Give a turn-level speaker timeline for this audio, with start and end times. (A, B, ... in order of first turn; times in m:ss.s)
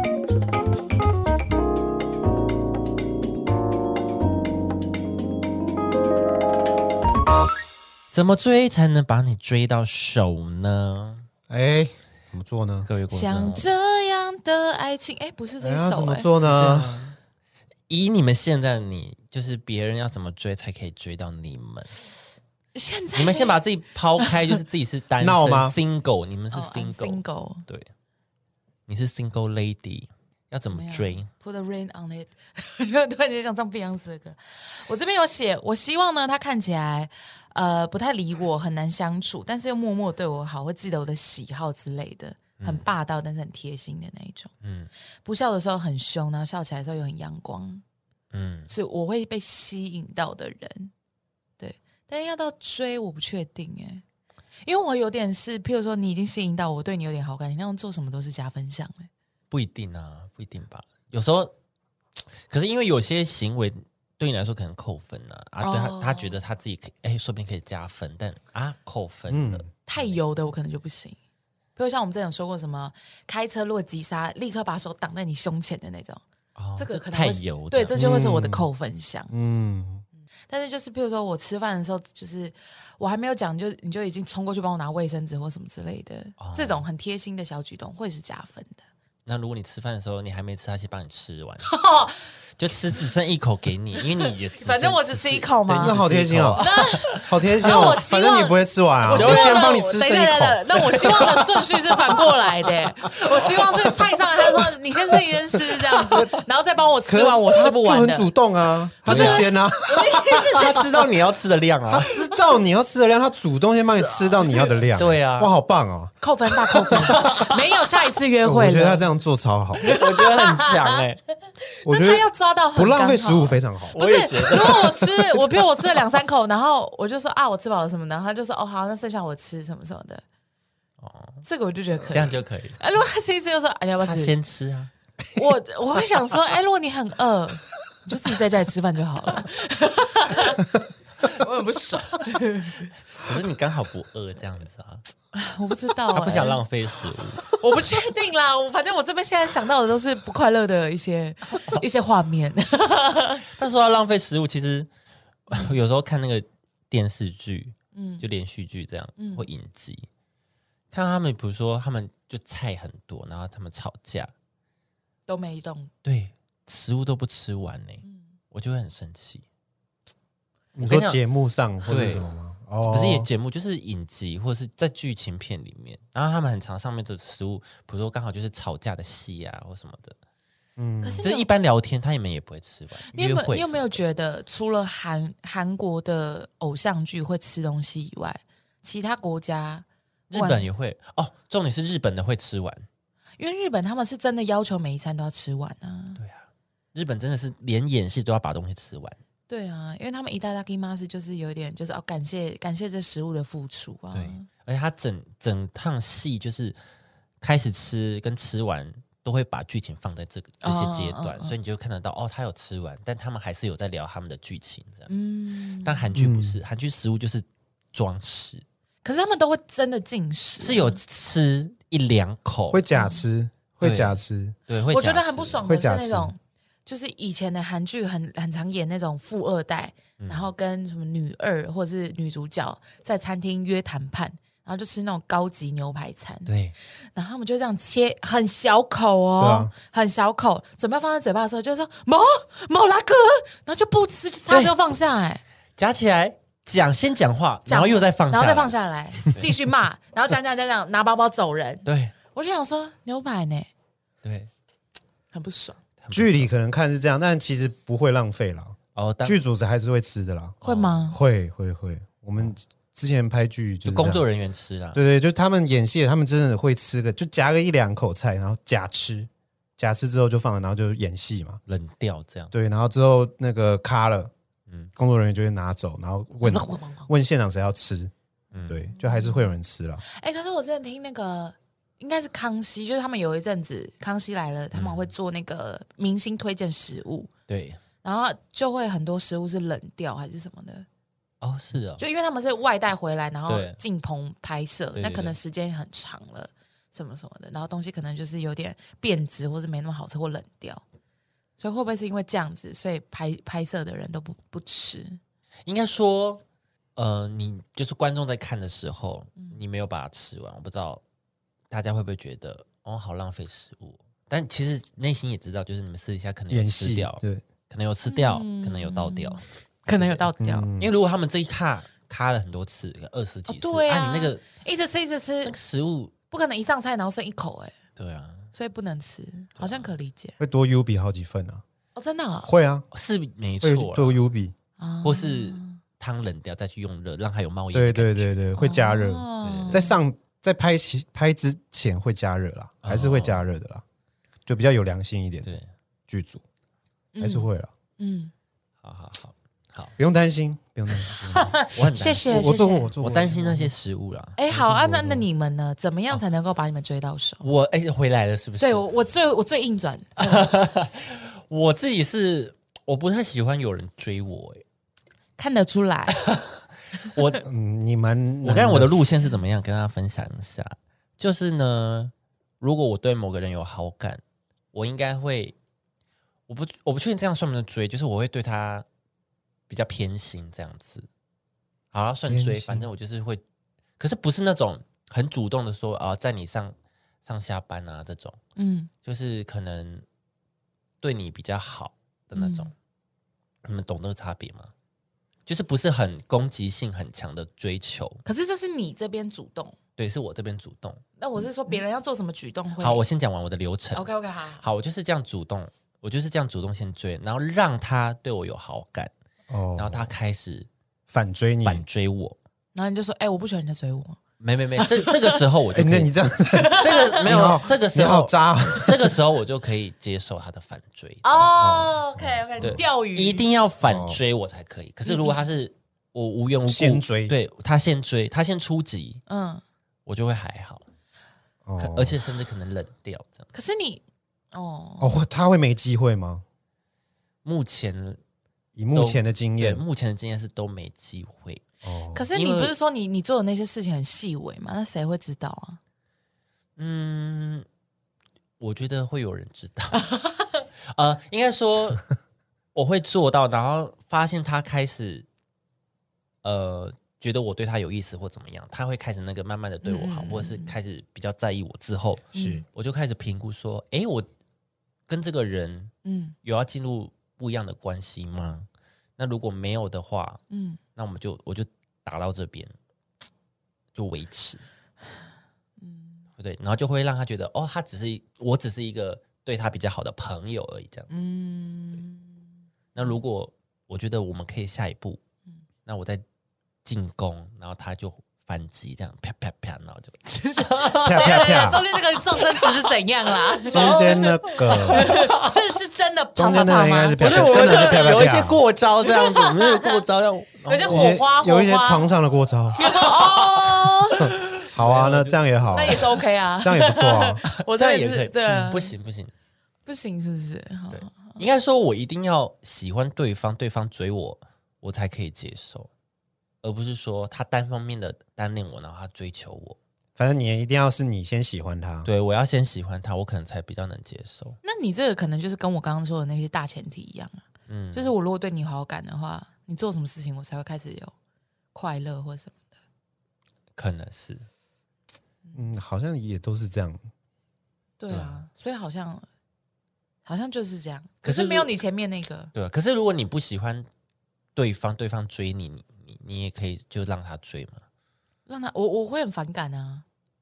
0:08.1-0:11.3 A
0:11.5-0:12.9 B
0:12.8-0:13.7 A
0:13.1-0:16.3 C
0:15.6-0:17.0 B
0:16.4-0:17.2 A
0:17.9-0:22.0 A
0:22.7-0:23.6 C
0:23.2-0:27.9 A
0:24.2-0:24.6 C
0:25.2-0:25.8 B
0:26.5-0:27.6 C
0:28.9-0:31.3 A
0:30.7-0:44.5 C
0:42.6-0:42.9 A
0:44.6-0:44.9 A
0:45.2-0:47.8 C
0:48.3-0:48.7 A
0:48.7-0:50.9 C
0:51.6-0:54.0 C
0:54.6-0:59.1 C
0:59.5-1:01.5 A
1:02.5-1:10.2 A
1:05.6-1:06.4 C
1:09.3-1:09.7 B
1:09.9-1:11.2 C
1:11.8-1:16.2 C
1:16.6-1:18.0 A
1:16.8-1:19.3 C
1:18.0-1:18.7 B
1:19.3-1:20.0 B
1:20.5-1:28.8 C
1:26.4-1:26.8 A
1:29.3-1:31.7 A
1:31.7-1:32.2 C
1:32.6-1:37.6 A
1:34.2-1:36.0 C
1:35.8-1:41.6 B
1:36.6-1:48.3 C
1:39.1-1:39.8 A
1:45.6-1:46.4 B
1:47.1-1:50.5 B
1:49.0-1:51.1 C
1:49.0-1:52.2 A
1:51.9-1:56.1 B
1:55.0-1:55.5 A
1:56.2-1:59.1 C
1:56.8-1:57.3 B
1:56.8-1:57.6 A
1:58.4-2:00.0 B
1:59.8-2:01.2 A
1:59.9-2:01.0 C
2:01.8-2:10.2 C
2:01.9-2:04.0 B
2:03.9-2:05.4 A
2:11.0-2:11.4 A
2:11.4-2:14.4 C
2:12.1-2:12.8 A
2:14.0-2:14.9 A
2:15.3-2:22.9 C
2:23.2-2:25.0 A
2:25.3-2:26.6 C
2:26.1-2:27.6 A
2:27.5-2:33.4 C
2:33.5-2:34.9 A
2:35.5-2:40.1 A
2:35.5-2:35.8 C
2:37.9-2:38.2 C
2:39.2-2:39.5 C
2:40.9-2:44.3 A
2:45.3-2:45.9 C
2:46.0-2:49.4 A
2:50.8-2:53.3 B
2:50.8-2:51.2 A
2:51.8-2:52.3 A
2:52.8-3:00.2 A
3:00.8-3:01.2 B
3:01.0-3:01.5 C
3:01.2-3:04.0 A
3:03.1-3:10.7 C
3:10.3-3:12.9 A
3:13.4-3:16.2 C
3:16.2-3:19.2 A
3:19.5-3:24.5 C
3:24.1-3:26.8 A
3:27.4-3:35.1 A
3:30.6-3:31.6 C
3:35.1-3:36.1 C
3:35.8-3:38.6 A
3:36.2-3:36.6 B
3:39.0-3:41.0 C
3:40.6-3:42.8 A
3:42.7-3:44.6 B
3:42.9-3:43.2 C
3:43.8-3:45.7 A
3:44.9-3:56.6 C
3:45.6-3:46.3 B
3:50.2-3:50.5 A
3:56.5-3:56.7 A
3:57.1-4:05.4 C
3:59.4-3:59.7 B
4:05.8-4:08.7 A
4:07.7-4:13.7 C
4:09.3-4:09.6 A
4:11.8-4:12.1 A
4:14.2-4:14.5 A
4:15.3-4:15.8 C
4:16.0-4:16.5 A
4:16.1-4:24.2 B
4:19.0-4:19.4 A
4:20.6-4:21.2 C
4:20.6-4:21.1 A
4:23.8-4:25.0 A
4:24.9-4:31.6 B
4:31.7-4:32.5 A
4:32.5-4:34.3 B
4:35.0-4:38.1 B
4:36.4-4:37.1 C
4:38.5-4:38.9 A
4:38.7-4:40.0 B
4:39.0-4:39.6 C
4:40.1-4:47.3 C
4:44.7-4:45.1 A
4:47.5-4:47.8 A
4:48.0-4:50.9 C
4:51.4-4:52.0 A
4:52.0-5:00.8 C
4:53.5-4:53.8 A
4:55.0-4:55.4 A
5:01.6-5:05.2 C
5:05.7-5:06.4 A
5:07.0-5:11.0 A
5:11.7-5:20.2 A
5:16.5-5:17.4 B
5:18.1-5:20.7 C
5:20.4-5:20.9 B
5:20.8-5:24.4 A
5:23.5-5:25.6 C
5:25.4-5:26.1 A
5:26.3-5:27.7 C
5:28.0-5:28.5 A
5:28.5-5:30.4 C
5:29.6-5:29.9 A
5:30.4-5:31.6 B
5:32.0-5:32.5 C
5:32.4-5:32.9 B
5:32.9-5:34.2 A
5:33.6-5:34.6 B
5:34.8-5:35.8 C
5:35.0-5:38.3 A
5:37.7-5:43.8 B
5:38.6-5:40.0 C
5:39.4-5:39.9 A
5:42.8-5:43.4 A
5:44.5-5:45.5 B
5:46.1-5:46.4 B
5:47.2-5:48.3 C
5:47.2-5:47.7 B
5:48.8-5:50.0 A
5:50.0-5:51.6 B
5:51.1-5:53.0 C
5:51.7-5:54.6 A
5:52.2-5:53.7 B
5:54.4-5:57.5 C
5:54.6-5:55.2 B
5:57.4-5:58.8 A
5:58.6-6:00.5 C
6:00.2-6:04.6 A
6:05.4-6:06.3 C
6:06.2-6:07.4 A
6:07.4-6:09.0 B
6:08.4-6:14.2 A
6:14.7-6:15.6 A
6:16.5-6:18.9 A
6:19.7-6:21.1 A
6:21.9-6:23.4 A
6:22.3-6:22.9 B
6:24.0-6:28.4 A
6:28.6-6:28.9 C
6:29.0-6:30.0 A
6:31.0-6:32.7 A
6:32.4-6:32.7 C
6:33.6-6:34.7 A
6:35.5-6:38.2 A
6:38.2-6:39.8 C
6:40.0-6:41.0 A
6:41.2-6:43.0 C
6:42.8-6:44.1 A
6:43.9-6:44.6 C
6:44.6-6:49.1 A
6:49.5-6:50.1 B
6:49.8-6:50.7 A
6:51.1-6:51.8 B
6:51.6-6:52.4 A
6:52.7-6:54.2 C
6:54.4-7:01.5 A
6:54.8-6:55.4 C
6:55.7-6:59.2 B
6:56.5-6:57.2 C
7:01.2-7:03.4 C
7:01.5-7:02.8 B
7:02.6-7:09.2 A
7:03.8-7:04.2 B
7:05.0-7:05.4 C
7:06.5-7:07.3 B
7:09.3-7:09.6 C
7:10.1-7:10.8 A
7:11.6-7:12.2 B
7:11.8-7:13.5 A
7:13.5-7:14.0 C
7:14.5-7:15.2 C
7:15.0-7:16.4 B
7:17.4-7:18.2 A
7:18.8-7:19.8 B
7:18.9-7:21.6 A
7:21.8-7:22.2 B
7:22.1-7:25.8 C
7:22.3-7:22.7 A
7:26.8-7:27.7 A
7:28.6-7:30.0 A
7:30.1-7:30.4 C
7:30.9-7:32.0 A
7:32.7-7:35.3 A
7:36.4-7:44.3 A
7:39.8-7:40.7 C
7:42.3-7:42.6 C
7:42.4-7:42.6 B
7:45.1-7:45.9 A
7:46.0-7:46.4 C
7:46.4-7:50.4 A
7:50.5-7:50.8 C
7:51.0-7:52.7 A
7:53.9-7:54.6 A
7:55.8-7:56.3 C
7:56.4-8:01.1 A
8:01.1-8:02.4 C
8:03.0-8:05.2 A
8:05.8-8:06.2 A
8:06.8-8:11.8 A
8:10.3-8:18.2 C
8:11.0-8:11.8 B
8:12.3-8:12.9 A
8:13.5-8:15.6 A
8:13.7-8:15.2 B
8:16.4-8:18.6 B
8:17.2-8:21.2 A
8:19.1-8:20.0 C
8:20.7-8:22.1 C
8:20.8-8:22.9 B
8:22.8-8:24.3 C
8:22.8-8:26.0 A
8:24.2-8:27.4 B
8:25.7-8:29.0 C
8:27.5-8:29.3 A
8:29.9-8:31.4 C
8:30.9-8:35.9 A
8:36.6-8:39.8 A
8:40.2-8:42.1 B
8:42.0-8:44.6 A
8:44.6-8:51.1 C
8:47.7-8:48.1 A
8:51.7-8:52.6 C
8:53.8-8:54.5 A
8:55.6-8:57.0 B
8:58.0-8:59.3 C
8:58.1-8:58.4 A
9:00.3-9:02.5 C
9:01.2-9:01.7 A
9:02.5-9:03.9 A
9:04.6-9:07.8 A
9:08.5-9:10.0 C